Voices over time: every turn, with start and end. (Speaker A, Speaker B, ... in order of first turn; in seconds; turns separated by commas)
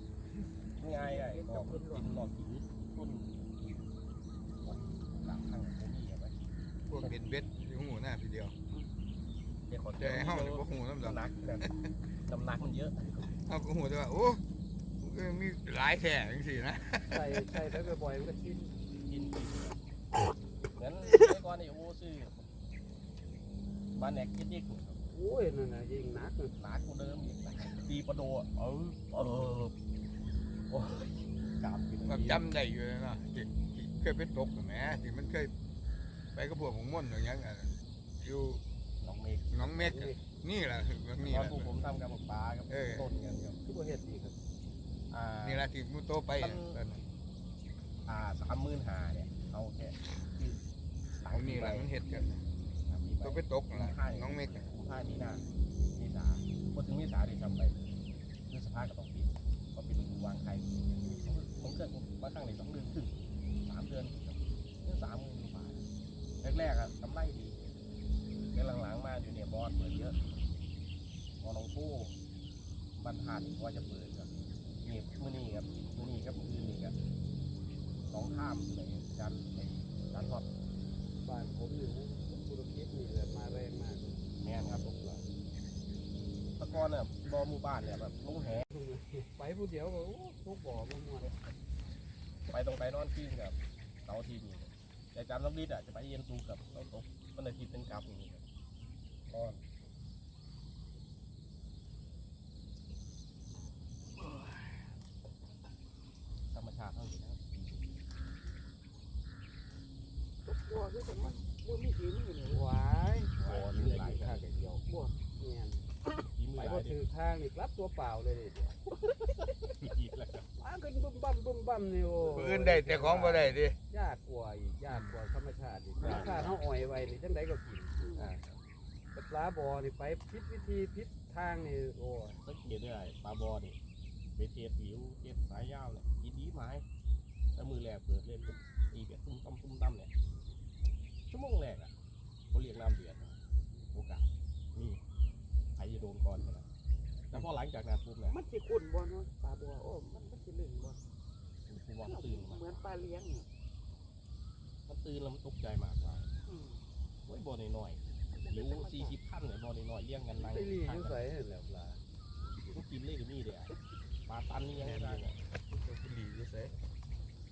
Speaker A: 0.8-3.9, Speaker B: 0.9-2.1, Speaker A: 4.6-7.1, Speaker C: 6.9-8.5, Speaker A: 9.7-11.7, Speaker C: 10.0-11.7, Speaker A: 12.3-13.2, Speaker C: 13.5-14.4, Speaker C: 15.0-17.8, Speaker D: 17.1-18.8, Speaker A: 18.9-19.8, Speaker A: 20.8-22.4, Speaker A: 23.9-25.0, Speaker D: 25.1-26.5, Speaker A: 26.6-29.7, Speaker A: 30.7-32.4, Speaker C: 32.1-35.5, Speaker C: 36.3-38.6, Speaker A: 39.0-39.6, Speaker C: 39.5-41.8, Speaker D: 39.6-40.2, Speaker A: 41.2-43.6, Speaker C: 42.7-43.1, Speaker D: 43.6-44.4, Speaker A: 45.1-45.7, Speaker C: 45.4-47.0, Speaker A: 46.4-46.8, Speaker A: 48.1-50.6, Speaker A: 51.2-51.9, Speaker C: 51.3-52.4, Speaker A: 52.8-55.4, Speaker C: 53.2-54.7, Speaker A: 55.9-57.8, Speaker A: 58.5-63.1, Speaker A: 63.6-65.8, Speaker A: 66.4-67.6, Speaker A: 68.5-70.2, Speaker A: 71.4-72.1, Speaker A: 73.0-74.3, Speaker A: 74.8-76.9, Speaker A: 78.1-80.5, Speaker D: 81.2-84.2, Speaker A: 84.4-85.2, Speaker A: 86.6-88.7, Speaker D: 88.7-91.3, Speaker A: 92.5-98.4, Speaker D: 99.3-99.6, Speaker A: 106.5-108.0, Speaker B: 110.4-112.7, Speaker D: 112.5-114.8, Speaker A: 113.4-114.5, Speaker B: 114.8-115.1, Speaker D: 115.3-115.8, Speaker A: 116.3-117.0, Speaker D: 116.5-118.8, Speaker A: 118.9-120.5, Speaker D: 120.6-128.0, Speaker C: 122.2-123.8, Speaker A: 124.9-125.1, Speaker A: 126.0-126.6, Speaker B: 126.0-126.4, Speaker B: 128.0-128.3, Speaker A: 128.2-128.4, Speaker D: 129.1-132.4, Speaker A: 132.4-133.8, Speaker A: 134.3-136.8, Speaker A: 137.6-140.1, Speaker A: 141.3-141.9, Speaker A: 142.5-143.4, Speaker A: 143.9-145.0, Speaker A: 145.8-146.7, Speaker A: 147.3-148.4, Speaker B: 148.3-151.0, Speaker A: 151.7-152.8, Speaker B: 152.1-153.5, Speaker A: 154.9-156.3, Speaker B: 156.4-156.8, Speaker A: 157.2-161.2, Speaker B: 158.3-159.2, Speaker D: 160.4-162.0, Speaker A: 162.7-163.7, Speaker A: 164.3-165.4, Speaker C: 164.8-166.7